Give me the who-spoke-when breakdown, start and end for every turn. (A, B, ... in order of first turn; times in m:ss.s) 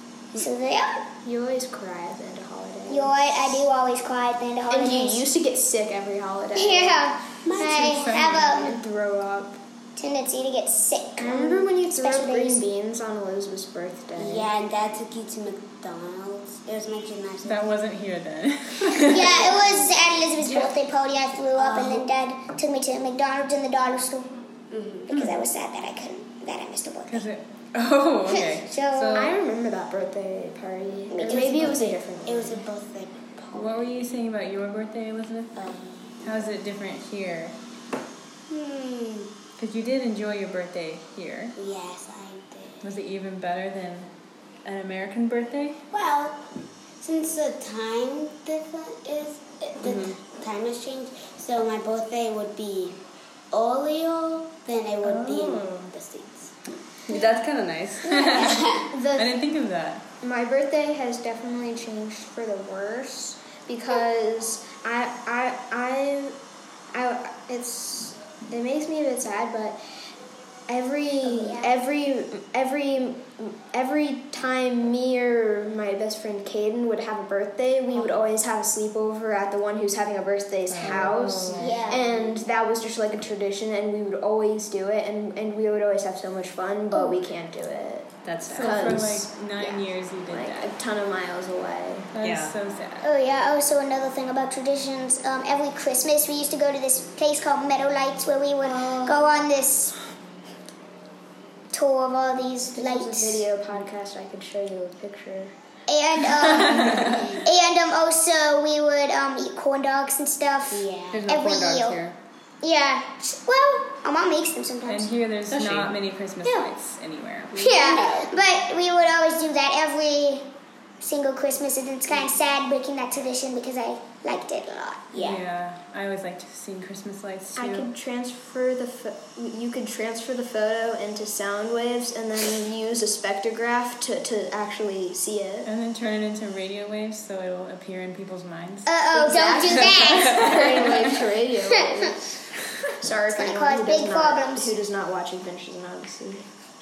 0:00.3-0:01.0 A
0:01.2-0:03.3 B
0:02.9-0:05.2 A
0:04.7-0:09.6 B
0:06.5-0:08.8 A
0:07.4-0:08.2 C
0:07.8-0:08.4 D
0:10.0-0:12.6 A
0:11.2-0:14.5 B
0:14.2-0:17.6 C
0:17.4-0:19.5 D
0:19.0-0:24.3 A
0:21.5-0:22.1 C
0:24.7-0:25.2 C
0:25.1-0:27.2 A
0:27.1-0:29.3 D
0:28.3-0:29.3 A
0:29.1-0:32.6 B
0:31.1-0:31.8 A
0:31.1-0:33.9 C
0:33.5-0:35.6 D
0:35.5-0:36.1 C
0:36.2-0:37.6 D
0:38.5-0:39.3 C
0:39.6-0:41.5 D
0:41.6-0:42.9 C
0:42.8-0:44.1 D
0:44.6-0:45.8 D
0:45.9-0:46.4 C
0:47.0-0:53.0 C
0:49.8-0:50.2 E
0:53.5-0:56.5 C
0:55.0-0:55.9 D
0:57.1-0:58.3 E
0:58.0-1:00.0 D
0:58.2-0:58.9 C
0:58.9-0:59.3 B
1:00.2-1:06.4 B
1:06.9-1:09.8 B
1:10.7-1:32.1 B
1:11.2-1:11.7 A
1:20.7-1:21.8 D
1:21.5-1:22.1 A
1:21.6-1:22.1 C
1:28.2-1:29.0 E
1:28.5-1:30.7 D
1:32.1-1:33.0 D
1:32.2-1:32.5 E
1:33.0-1:40.0 A
1:38.6-1:39.2 B
1:41.7-1:43.4 A
1:42.7-1:45.5 B
1:45.9-1:52.0 A
1:46.6-1:47.0 D
1:47.0-1:47.4 C
1:50.7-1:51.3 C
1:51.1-1:52.1 E
1:52.6-1:55.1 A
1:54.8-1:57.5 D
1:55.5-1:55.9 E
1:57.5-1:58.3 C
1:57.5-2:00.5 A
2:01.0-2:05.1 A
2:05.1-2:05.4 C
2:05.2-2:07.9 D
2:07.6-2:15.7 B
2:15.6-2:18.9 D
2:18.8-2:20.6 A
2:19.1-2:22.3 B
2:19.7-2:21.2 D
2:22.9-2:26.4 B
2:23.3-2:24.8 A